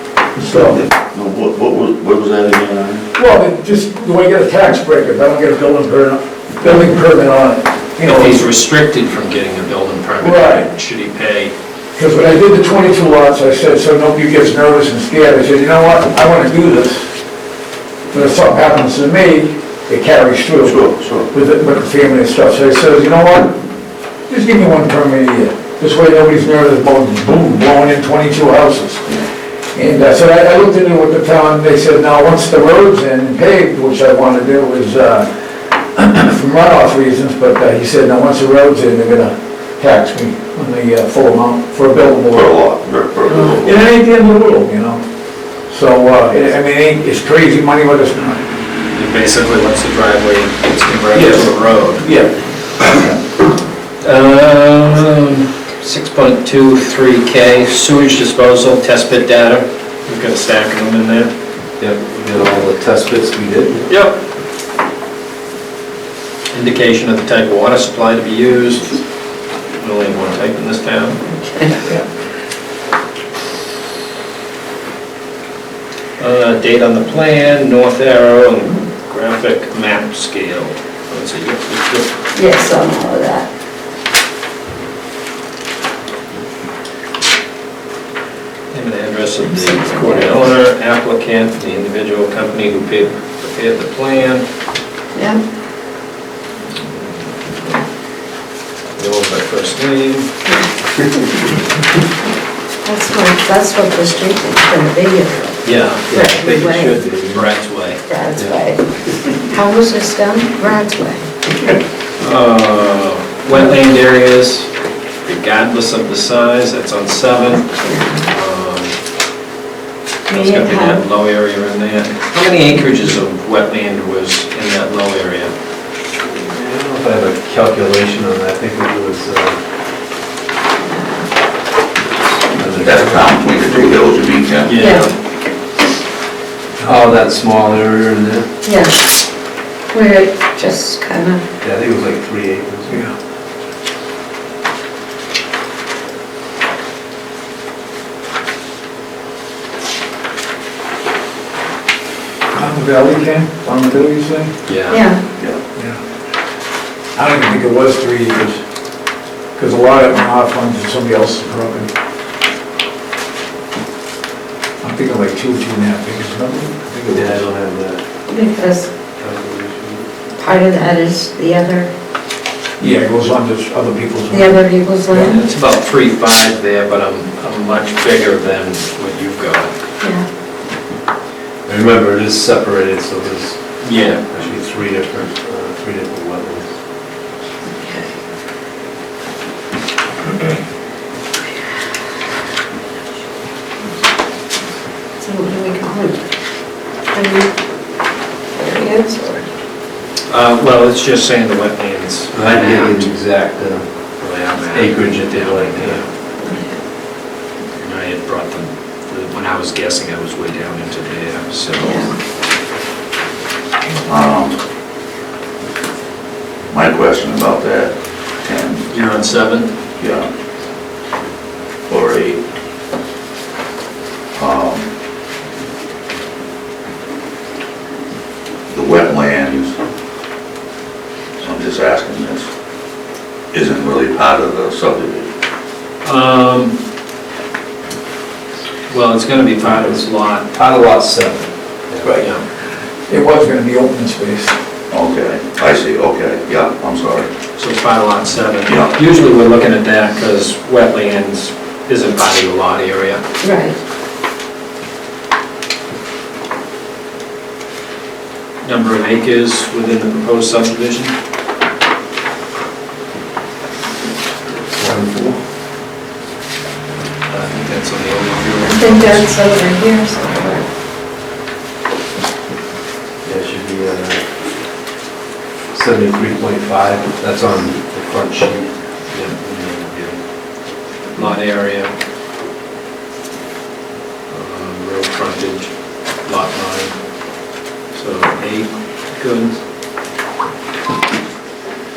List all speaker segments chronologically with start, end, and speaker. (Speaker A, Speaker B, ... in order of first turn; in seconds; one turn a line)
Speaker A: 0.4-0.8
Speaker B: 1.1-2.9
Speaker A: 3.1-8.5
Speaker C: 8.0-11.5
Speaker A: 10.2-10.7
Speaker A: 11.9-17.1
Speaker A: 18.1-23.6
Speaker B: 20.6-21.3
Speaker A: 24.3-29.1
Speaker A: 29.7-42.6
Speaker B: 42.3-43.8
Speaker A: 43.3-45.0
Speaker A: 45.7-48.4
Speaker C: 48.9-52.0
Speaker A: 51.1-53.2
Speaker C: 54.0-61.3
Speaker D: 61.8-63.8
Speaker C: 63.9-64.2
Speaker C: 66.5-69.0
Speaker C: 69.7-71.2
Speaker E: 71.3-71.8
Speaker C: 76.2-82.1
Speaker E: 82.3-83.5
Speaker C: 88.7-94.5
Speaker E: 89.4-90.4
Speaker E: 95.1-95.4
Speaker C: 99.0-100.3
Speaker E: 102.8-107.0
Speaker C: 105.6-108.0
Speaker D: 107.0-107.5
Speaker E: 108.1-111.3
Speaker D: 108.4-108.6
Speaker C: 112.2-114.7
Speaker C: 115.2-117.7
Speaker E: 117.7-118.3
Speaker C: 118.3-119.0
Speaker E: 120.3-121.0
Speaker C: 120.3-125.5
Speaker D: 126.4-129.6
Speaker E: 130.8-131.3
Speaker D: 132.5-133.3
Speaker B: 132.6-134.8
Speaker C: 134.7-135.1
Speaker E: 134.8-135.1
Speaker D: 136.8-138.5
Speaker E: 138.6-139.0
Speaker E: 139.9-141.4
Speaker D: 141.6-143.1
Speaker A: 142.9-143.2
Speaker A: 152.5-154.5
Speaker C: 154.7-155.0
Speaker E: 154.9-155.2
Speaker A: 157.2-158.6
Speaker A: 159.6-161.9
Speaker A: 164.8-167.5
Speaker D: 167.1-168.0
Speaker E: 168.3-168.9
Speaker D: 169.2-170.1
Speaker E: 170.4-171.9
Speaker A: 172.8-174.6
Speaker E: 174.3-175.4
Speaker C: 175.2-179.7
Speaker E: 180.0-180.3
Speaker D: 181.7-186.7
Speaker C: 183.8-184.2
Speaker E: 187.8-188.1
Speaker E: 195.2-196.2
Speaker E: 197.1-197.5
Speaker E: 198.6-199.5
Speaker C: 200.3-203.1
Speaker D: 202.3-203.8
Speaker C: 204.2-206.1
Speaker D: 204.7-206.0
Speaker C: 207.8-212.1
Speaker E: 211.8-212.1
Speaker B: 214.1-214.6
Speaker B: 216.7-218.8
Speaker C: 218.9-219.7
Speaker B: 220.0-220.3
Speaker B: 221.9-222.4
Speaker B: 224.3-224.9
Speaker B: 228.7-229.8
Speaker B: 231.4-232.5
Speaker B: 233.5-235.3
Speaker C: 236.0-236.8
Speaker C: 238.9-240.5
Speaker D: 240.6-242.2
Speaker C: 242.2-242.4
Speaker A: 243.1-244.6
Speaker B: 244.9-247.3
Speaker C: 247.6-253.2
Speaker B: 248.7-248.9
Speaker E: 253.4-253.8
Speaker C: 258.6-261.1
Speaker D: 264.5-265.4
Speaker C: 267.3-269.3
Speaker E: 268.6-270.6
Speaker D: 273.2-274.2
Speaker D: 275.7-278.7
Speaker C: 279.1-280.2
Speaker C: 281.1-281.9
Speaker C: 284.3-285.7
Speaker C: 286.2-287.0
Speaker C: 287.9-289.6